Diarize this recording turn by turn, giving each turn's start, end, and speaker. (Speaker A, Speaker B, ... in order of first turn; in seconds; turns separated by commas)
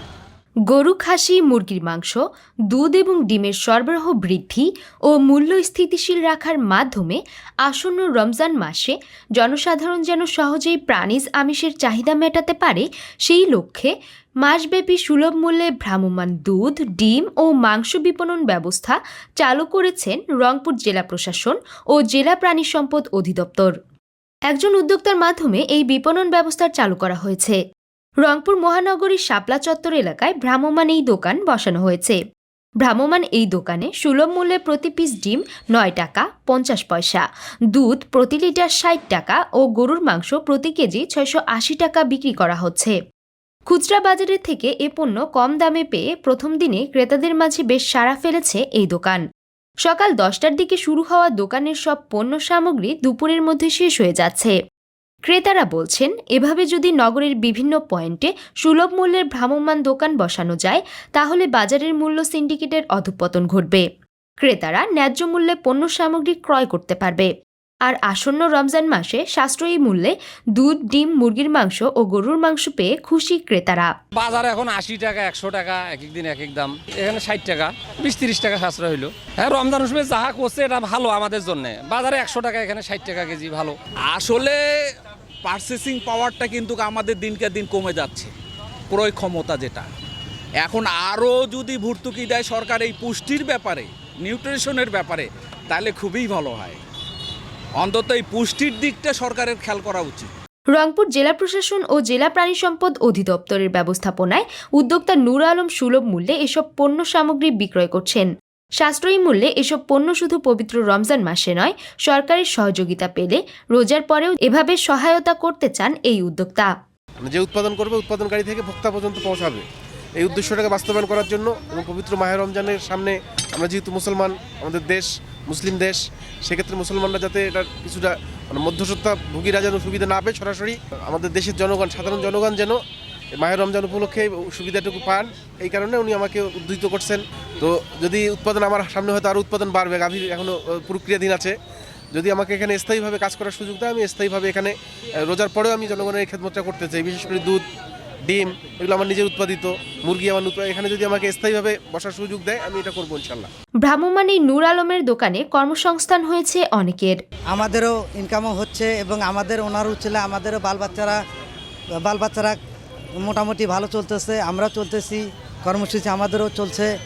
Speaker A: 0.7-2.2, Speaker A: 2.7-13.9, Speaker A: 14.4-23.7, Speaker A: 24.5-27.6, Speaker A: 28.2-32.2, Speaker A: 32.8-43.0, Speaker A: 43.7-49.2, Speaker A: 49.8-54.5, Speaker A: 55.3-63.8, Speaker A: 64.4-67.3, Speaker A: 67.9-73.9, Speaker B: 74.2-83.8, Speaker C: 84.1-84.6, Speaker C: 85.4-88.3, Speaker C: 88.9-89.9, Speaker C: 90.6-96.8, Speaker C: 97.8-100.3, Speaker A: 100.7-108.3, Speaker A: 108.8-116.7, Speaker D: 117.2-119.6, Speaker D: 120.2-132.8, Speaker D: 133.4-141.6, Speaker D: 142.1-147.6, Speaker D: 148.3-153.5, Speaker A: 153.8-157.2, Speaker E: 157.5-161.2, Speaker E: 162.0-162.6, Speaker E: 163.2-166.9